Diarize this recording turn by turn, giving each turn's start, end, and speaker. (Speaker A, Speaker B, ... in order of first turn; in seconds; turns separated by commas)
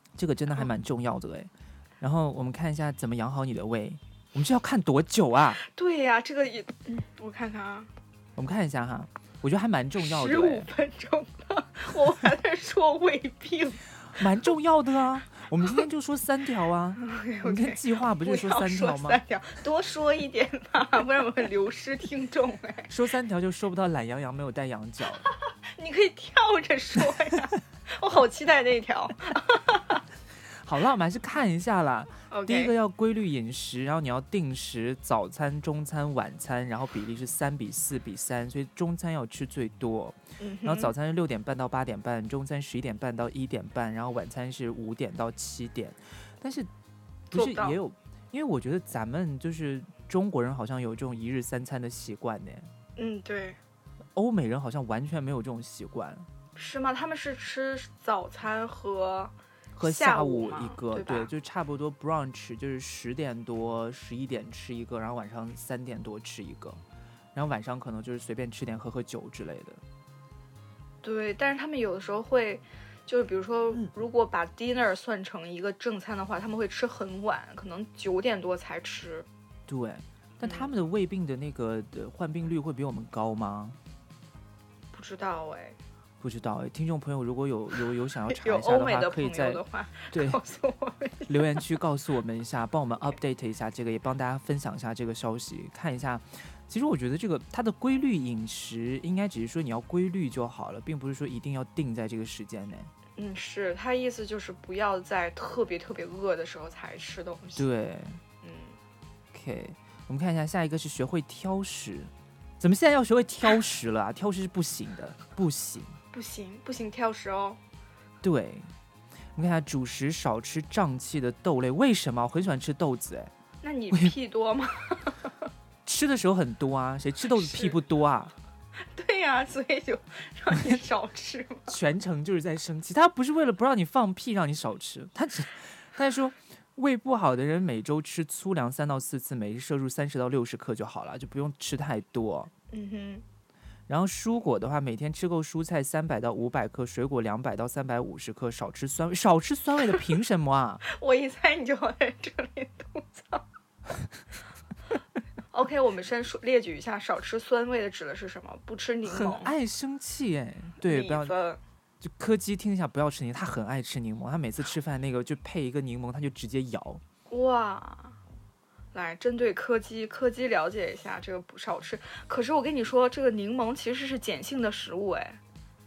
Speaker A: 0.2-5.6, Speaker B: 5.6-7.9, Speaker A: 8.3-10.7, Speaker B: 10.0-13.8, Speaker A: 14.1-19.2, Speaker B: 17.0-22.9, Speaker A: 22.9-25.2, Speaker B: 25.2-30.0, Speaker A: 30.5-46.7, Speaker B: 32.3-32.7, Speaker B: 40.4-40.9, Speaker A: 47.3-52.7, Speaker B: 47.3-47.8, Speaker B: 53.0-53.6, Speaker A: 54.1-56.3, Speaker B: 56.5-61.3, Speaker A: 59.8-66.8, Speaker A: 67.3-69.8, Speaker B: 71.0-79.3, Speaker A: 79.7-83.8, Speaker B: 80.4-80.7, Speaker B: 84.9-85.8, Speaker A: 86.2-90.4, Speaker B: 88.3-91.6, Speaker A: 91.3-102.9, Speaker B: 103.2-107.7, Speaker A: 107.6-108.2, Speaker B: 108.4-108.8, Speaker A: 109.3-116.0, Speaker B: 116.1-117.6, Speaker A: 118.2-118.7, Speaker A: 119.3-123.3, Speaker B: 123.6-125.3, Speaker A: 125.8-128.3, Speaker B: 127.3-127.8, Speaker B: 128.9-131.7, Speaker A: 131.7-142.5, Speaker B: 142.7-143.2, Speaker A: 143.9-150.8, Speaker B: 150.8-153.4, Speaker B: 155.5-159.5, Speaker A: 159.0-161.3, Speaker B: 160.8-161.6, Speaker A: 162.0-167.0, Speaker B: 167.3-168.2, Speaker B: 168.9-175.4